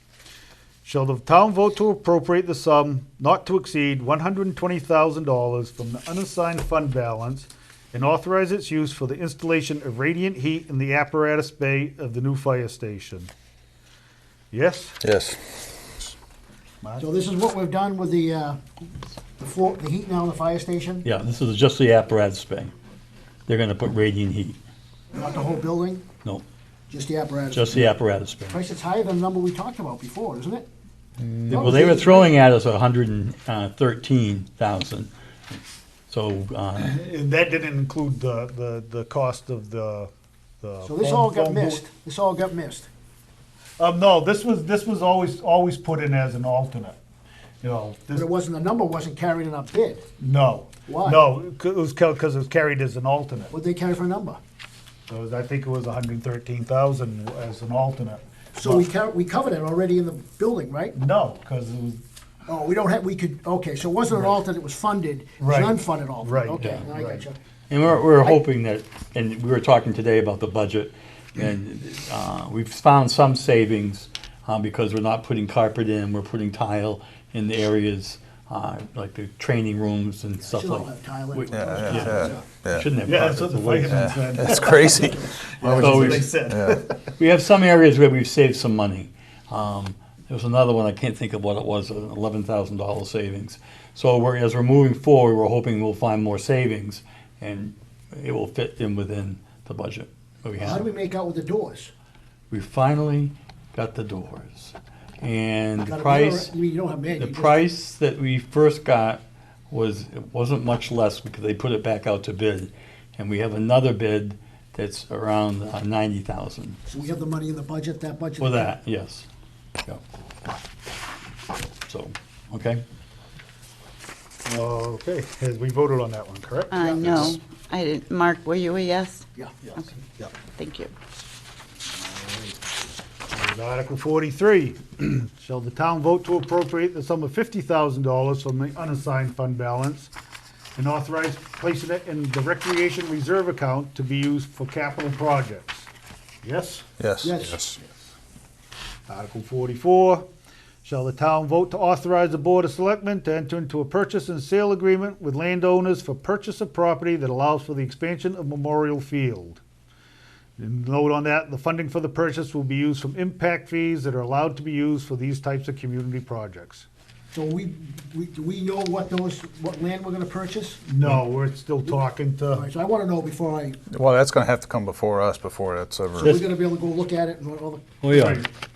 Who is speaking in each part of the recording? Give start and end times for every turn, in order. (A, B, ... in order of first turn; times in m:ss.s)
0:00.8-0:13.3 A
0:14.5-0:15.0 A
0:15.0-0:16.1 B
0:16.8-0:17.1 A
0:17.0-0:18.6 C
0:19.4-0:21.0 C
0:21.0-0:22.7 D
0:23.5-0:24.6 D
0:25.1-0:26.0 C
0:26.9-0:27.8 C
0:27.5-0:28.6 D
0:28.5-0:30.7 C
0:31.2-0:31.6 B
0:31.5-0:32.3 C
0:31.5-0:35.1 D
0:36.1-0:36.9 D
0:36.8-0:40.1 A
0:40.6-0:41.9 A
0:40.8-0:42.9 C
0:43.8-0:47.0 A
0:47.6-0:48.3 A
0:48.1-0:50.1 C
0:50.2-0:53.5 A
0:50.8-0:51.2 C
0:53.5-0:54.4 C
0:55.1-0:58.9 A
0:58.6-1:01.0 C
1:00.9-1:02.0 A
1:02.5-1:07.4 C
1:05.4-1:07.3 A
1:06.6-1:06.8 D
1:07.7-1:24.5 D
1:20.4-1:22.4 C
1:21.5-1:22.9 B
1:21.8-1:22.3 A
1:23.0-1:24.8 A
1:23.9-1:26.8 B
1:24.5-1:25.5 C
1:25.3-1:27.1 A
1:25.8-1:26.4 D
1:27.2-1:40.9 D
1:40.6-1:41.9 C
1:42.5-1:46.5 D
1:45.8-1:47.6 C
1:47.1-1:56.8 D
1:56.8-1:58.7 C
1:58.4-1:59.2 D
2:01.9-2:02.8 D
2:04.4-2:07.4 A
2:06.7-2:10.9 E
2:12.0-2:12.5 A
2:13.3-2:20.1 A
2:20.8-2:25.9 A
2:26.4-2:26.9 A
2:27.0-2:27.8 B
2:27.2-2:27.6 C
2:29.1-2:30.3 A
2:30.8-2:39.6 A
2:40.6-2:46.9 A
2:47.3-2:50.8 C
2:50.8-2:52.7 A
2:52.5-2:53.8 C
2:53.9-2:56.4 B
2:56.1-2:57.9 C
2:58.0-2:58.4 D
2:58.1-2:58.4 A